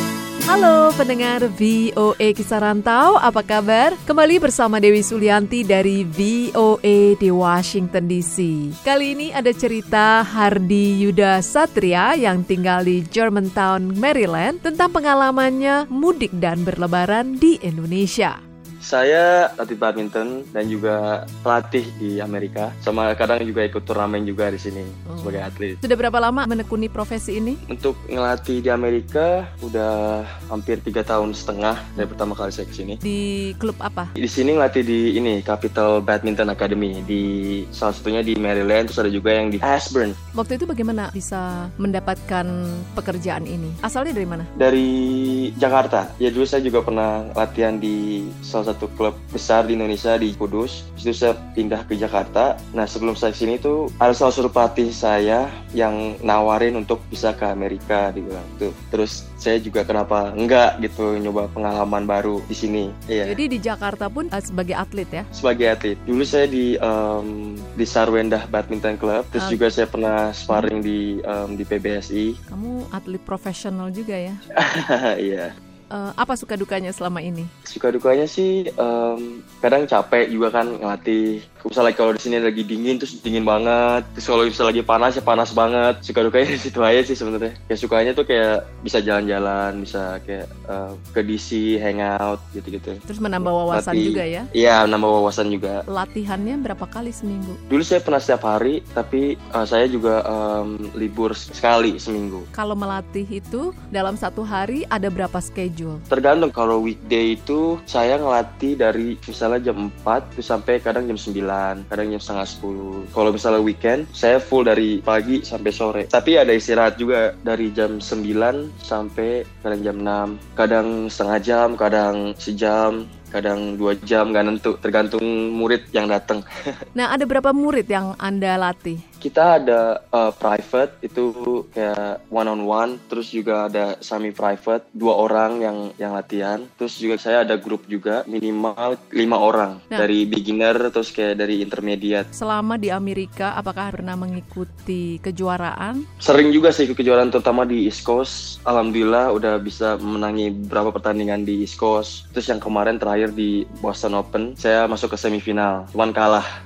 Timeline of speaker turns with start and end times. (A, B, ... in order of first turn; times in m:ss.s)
0:00.5-0:18.4 A
0:18.8-0:25.8 B
0:25.1-0:27.6 A
0:27.7-0:33.0 B
0:33.0-0:34.1 A
0:34.2-0:40.2 B
0:40.3-0:44.5 A
0:44.6-1:03.4 B
1:03.2-1:05.3 A
1:05.3-1:12.4 B
1:09.4-1:09.6 A
1:12.5-1:14.4 A
1:14.6-1:15.5 B
1:15.9-1:17.5 A
1:17.7-1:33.0 B
1:33.1-1:34.5 A
1:33.7-1:35.8 B
1:35.9-1:37.6 A
1:37.7-1:42.5 B
1:42.5-1:46.0 A
1:46.1-2:06.5 B
2:07.0-2:09.0 A
2:09.2-2:22.3 B
2:22.3-2:26.1 A
2:26.2-2:36.5 B